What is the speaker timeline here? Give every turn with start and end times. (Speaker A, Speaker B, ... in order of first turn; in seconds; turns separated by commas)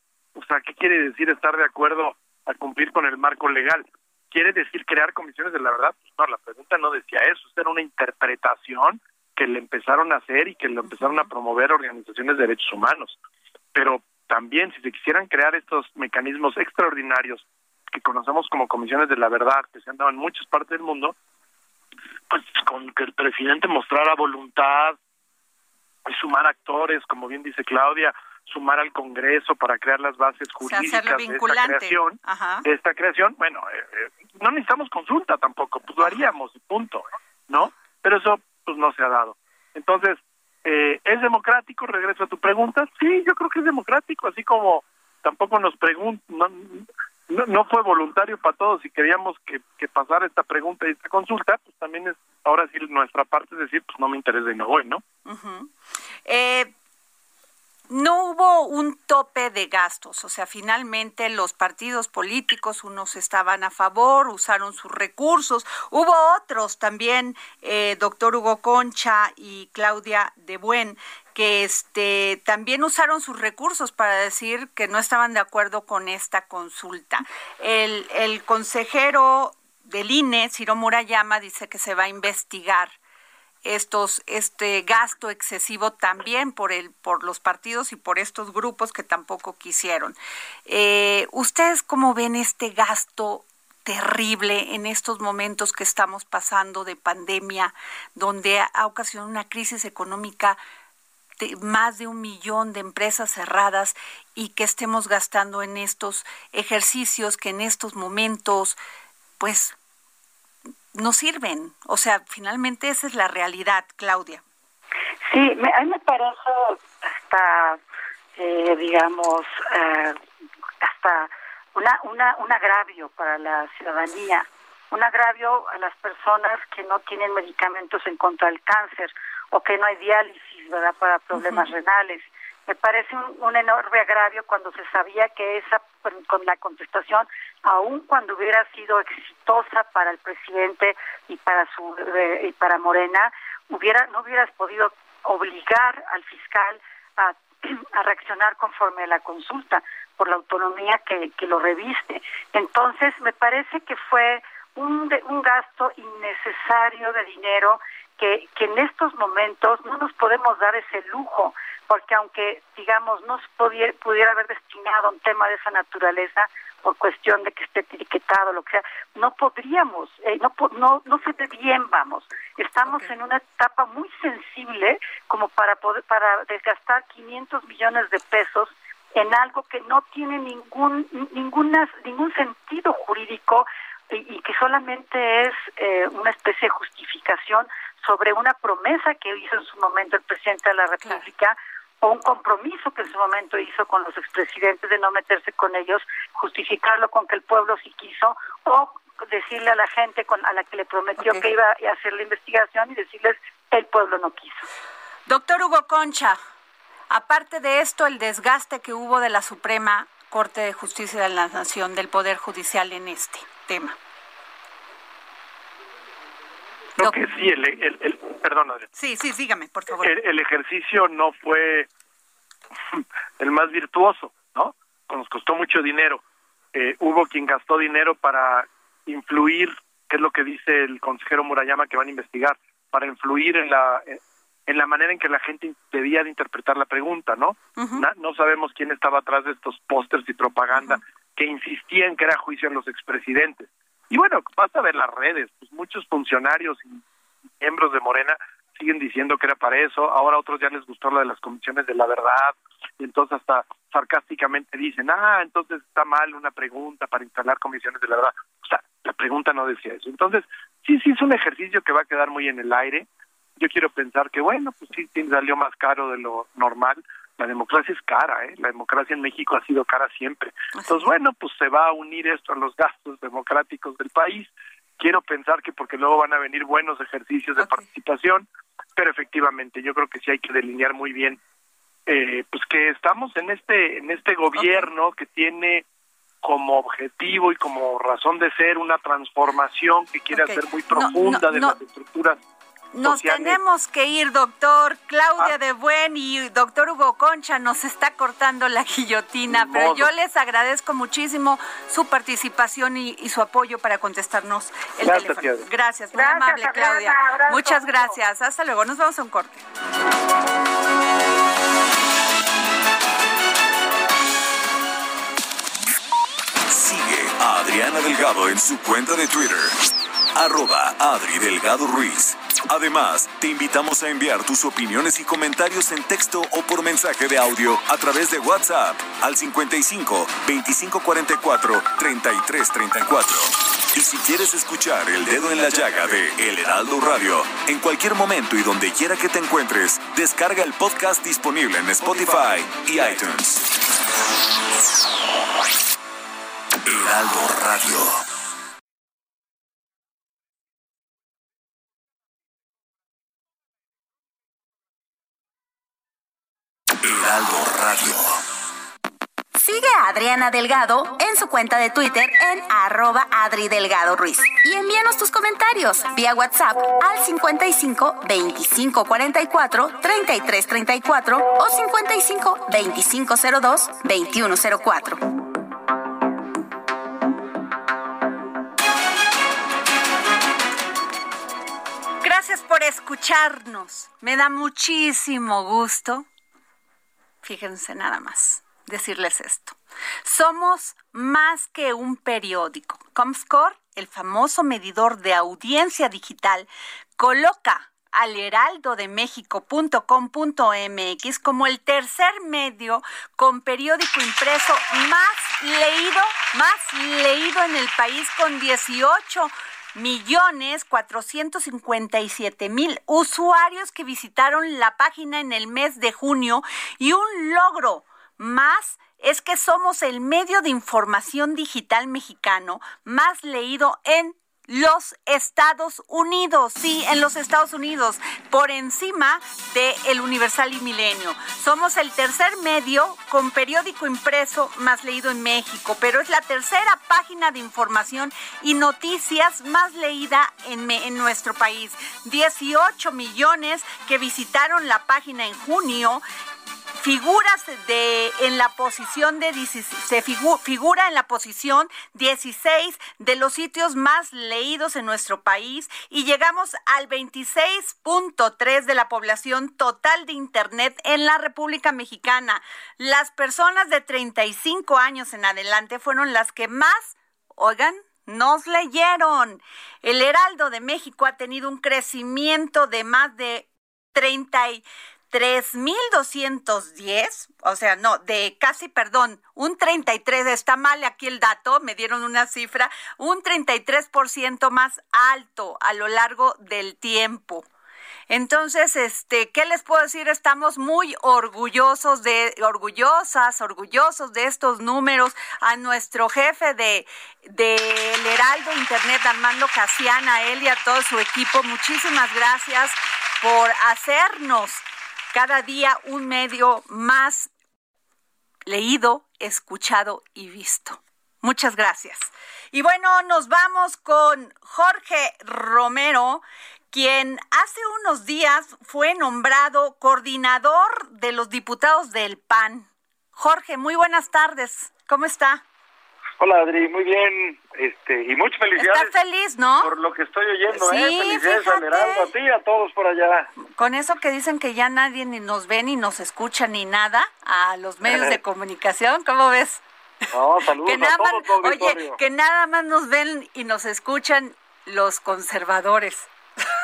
Speaker A: 0.3-13.2, Speaker B: 10.9-11.3, Speaker A: 13.7-21.1, Speaker A: 22.3-25.0, Speaker A: 26.1-55.0, Speaker B: 30.6-32.6, Speaker B: 36.0-36.3, Speaker B: 55.2-55.7, Speaker B: 56.3-56.7, Speaker B: 57.9-83.0, Speaker B: 83.6-100.6, Speaker B: 101.4-108.8, Speaker B: 109.4-109.8, Speaker B: 110.9-114.4, Speaker C: 115.3-117.8, Speaker C: 118.4-120.2, Speaker C: 120.8-204.6, Speaker B: 131.3-131.7, Speaker B: 201.2-201.4, Speaker B: 205.3-206.4, Speaker B: 207.1-214.0, Speaker A: 217.0-218.9, Speaker B: 218.9-220.1, Speaker A: 220.0-221.9, Speaker A: 223.0-226.2, Speaker A: 226.7-247.0, Speaker B: 237.8-238.1, Speaker B: 240.7-241.0, Speaker A: 247.6-263.1, Speaker A: 263.6-281.4, Speaker B: 270.8-271.0, Speaker B: 277.6-277.8, Speaker A: 282.1-285.9, Speaker B: 284.6-284.9, Speaker A: 286.4-292.4, Speaker B: 290.3-291.8, Speaker B: 292.9-309.6, Speaker A: 293.0-293.6, Speaker A: 299.5-300.1, Speaker A: 305.0-305.7, Speaker C: 306.1-308.1, Speaker D: 316.7-343.8, Speaker D: 346.8-348.2, Speaker D: 357.0-358.4, Speaker E: 359.6-375.3, Speaker B: 382.2-386.3, Speaker B: 387.4-446.2, Speaker B: 446.9-487.7, Speaker B: 488.3-507.5, Speaker B: 508.7-525.6, Speaker F: 526.4-529.1, Speaker B: 528.8-529.9, Speaker F: 529.8-533.5, Speaker B: 530.7-532.3, Speaker B: 533.6-539.8, Speaker F: 538.0-538.4, Speaker F: 540.3-542.2, Speaker B: 540.8-546.3